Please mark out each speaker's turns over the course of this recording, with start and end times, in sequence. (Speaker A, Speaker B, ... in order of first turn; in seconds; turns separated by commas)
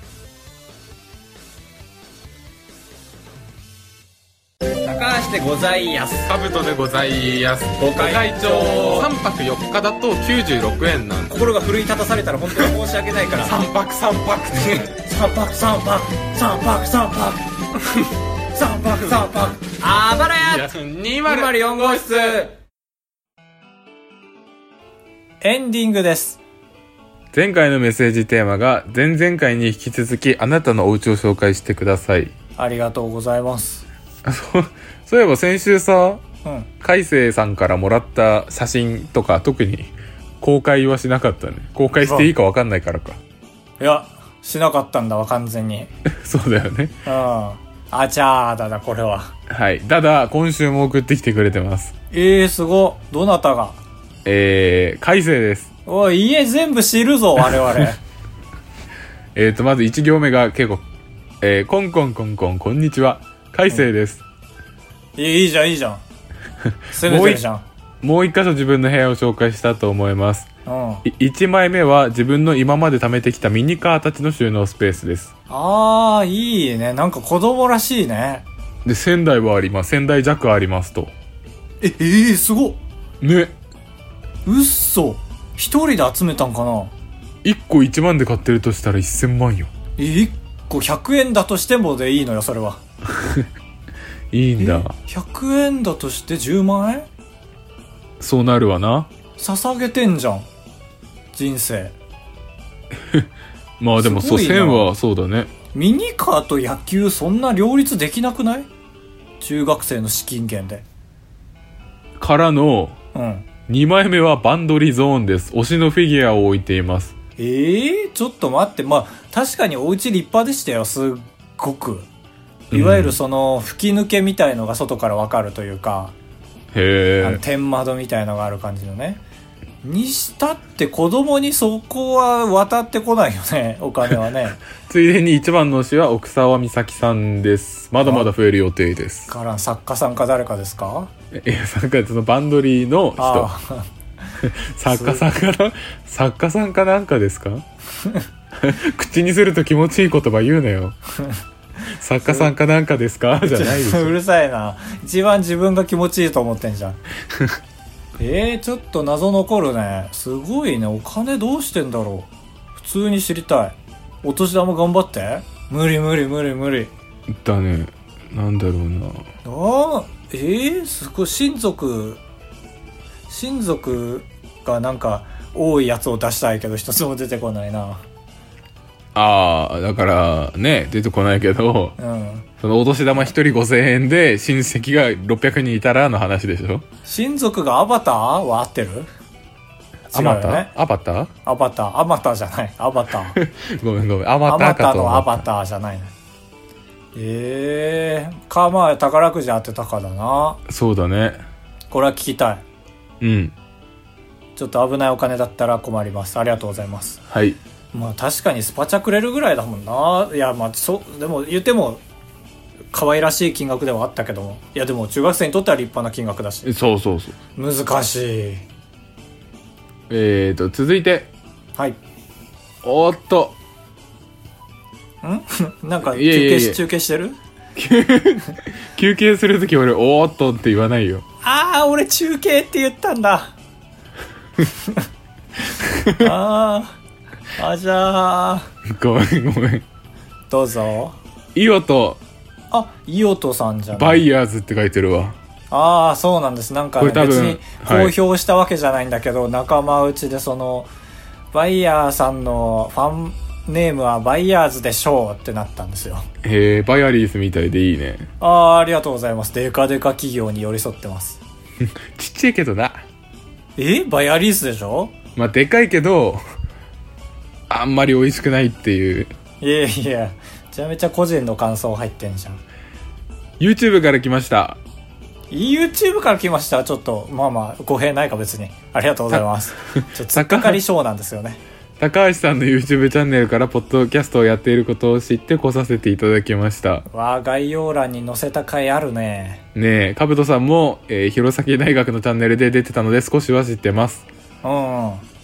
Speaker A: 4.8-6.3, Speaker B: 6.3-11.4, Speaker A: 7.8-9.1, Speaker A: 11.3-13.6, Speaker B: 13.4-14.9, Speaker A: 14.6-18.0, Speaker A: 18.5-20.7, Speaker B: 20.4-22.4, Speaker A: 21.2-22.5, Speaker A: 25.4-26.4, Speaker B: 27.3-32.3, Speaker A: 32.6-33.9, Speaker B: 34.2-36.2, Speaker A: 36.4-36.7, Speaker B: 36.8-43.2, Speaker A: 42.0-42.3, Speaker A: 43.8-45.9, Speaker B: 46.1-47.0, Speaker A: 47.1-49.3, Speaker B: 49.5-51.9, Speaker A: 52.1-53.8, Speaker B: 54.2-55.7, Speaker A: 55.9-58.0, Speaker B: 59.4-60.8, Speaker B: 61.4-64.2, Speaker A: 65.2-66.0, Speaker A: 66.9-67.6, Speaker B: 67.0-67.4, Speaker B: 68.0-70.5, Speaker A: 70.7-71.0, Speaker B: 71.0-75.3, Speaker A: 75.5-78.4, Speaker B: 78.8-81.1, Speaker A: 81.8-82.8, Speaker B: 83.2-83.5, Speaker A: 84.4-86.9, Speaker B: 87.4-89.7, Speaker A: 90.0-92.8, Speaker B: 93.1-93.5, Speaker B: 94.3-94.9, Speaker A: 94.6-97.1, Speaker B: 98.2-99.1, Speaker A: 99.4-100.5, Speaker A: 101.3-101.9, Speaker B: 103.8-105.5, Speaker A: 104.0-104.9, Speaker A: 105.7-108.7, Speaker A: 109.4-110.8, Speaker B: 112.2-113.0, Speaker A: 113.1-113.5, Speaker B: 113.7-117.1, Speaker A: 117.4-122.1, Speaker B: 122.7-123.2, Speaker A: 122.7-126.1, Speaker B: 126.7-127.4, Speaker A: 127.2-129.2, Speaker A: 129.8-134.6, Speaker B: 134.8-139.3, Speaker A: 138.1-138.3, Speaker A: 139.3-141.1, Speaker B: 141.3-143.5, Speaker A: 143.2-143.9, Speaker B: 144.4-147.7, Speaker A: 144.9-145.2, Speaker A: 148.0-148.3, Speaker B: 148.6-150.9, Speaker B: 151.9-154.1, Speaker A: 152.3-152.5, Speaker A: 153.4-157.0, Speaker A: 158.2-166.9, Speaker B: 167.3-169.3, Speaker A: 169.4-172.2, Speaker A: 173.3-178.0, Speaker B: 179.1-182.0, Speaker A: 182.0-182.5, Speaker B: 182.6-186.9, Speaker A: 187.1-189.1, Speaker A: 190.1-190.7, Speaker B: 190.1-191.3, Speaker A: 191.4-193.4, Speaker B: 193.3-195.4, Speaker A: 194.5-196.1, Speaker A: 197.1-200.6, Speaker B: 200.7-201.4, Speaker A: 201.9-202.6, Speaker B: 203.2-203.5, Speaker A: 204.6-207.2, Speaker B: 207.3-207.6, Speaker A: 207.9-212.0, Speaker A: 212.9-216.7, Speaker B: 216.6-217.4, Speaker A: 217.6-218.6, Speaker B: 220.1-221.3, Speaker B: 222.8-223.6, Speaker A: 225.2-227.4, Speaker B: 226.1-226.8, Speaker B: 227.8-231.2, Speaker A: 231.4-233.6, Speaker A: 234.6-235.1, Speaker B: 235.8-236.3, Speaker A: 236.2-237.0, Speaker A: 237.6-238.7, Speaker B: 238.8-239.8, Speaker A: 240.5-241.2, Speaker B: 241.6-242.2, Speaker A: 242.7-244.2, Speaker B: 243.9-245.4, Speaker A: 245.7-250.9, Speaker B: 247.0-248.1, Speaker A: 251.5-256.3, Speaker B: 256.4-258.3, Speaker A: 258.4-261.4, Speaker B: 261.8-263.0, Speaker A: 263.8-265.1, Speaker B: 265.4-266.4, Speaker B: 267.7-269.3, Speaker A: 269.6-272.6, Speaker B: 273.6-274.8, Speaker A: 275.5-281.6, Speaker B: 279.3-280.8, Speaker B: 282.0-287.1, Speaker A: 287.1-289.6, Speaker B: 289.8-294.3, Speaker A: 294.6-295.2